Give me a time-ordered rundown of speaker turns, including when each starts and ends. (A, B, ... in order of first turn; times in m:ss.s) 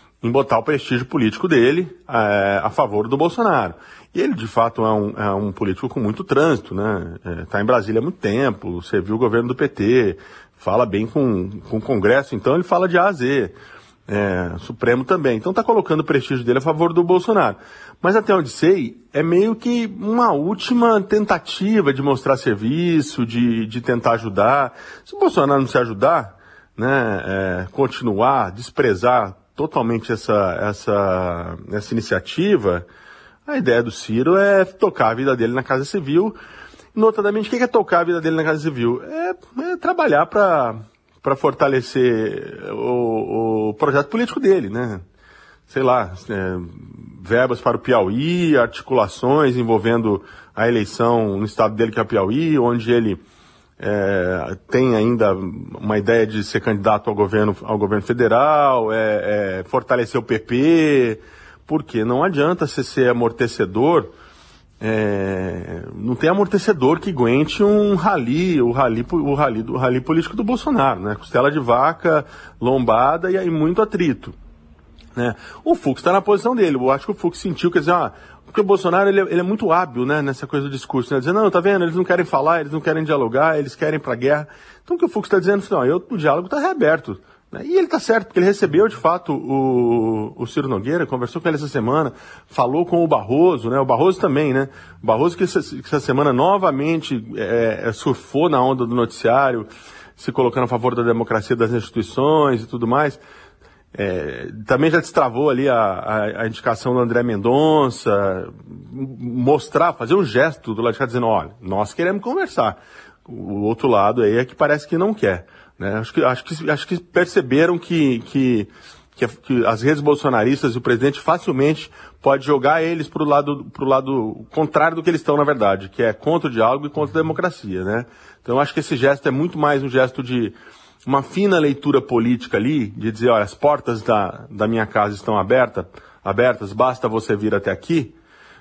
0:00.2-0:13.6 A
0:14.1-0:32.9 A
0:33.5-0:36.4 A
0:36.9-0:45.0 A
0:45.7-0:53.2 A
0:53.8-1:04.1 A
1:04.8-1:14.4 A
1:15.1-1:43.2 A
1:43.9-2:18.2 A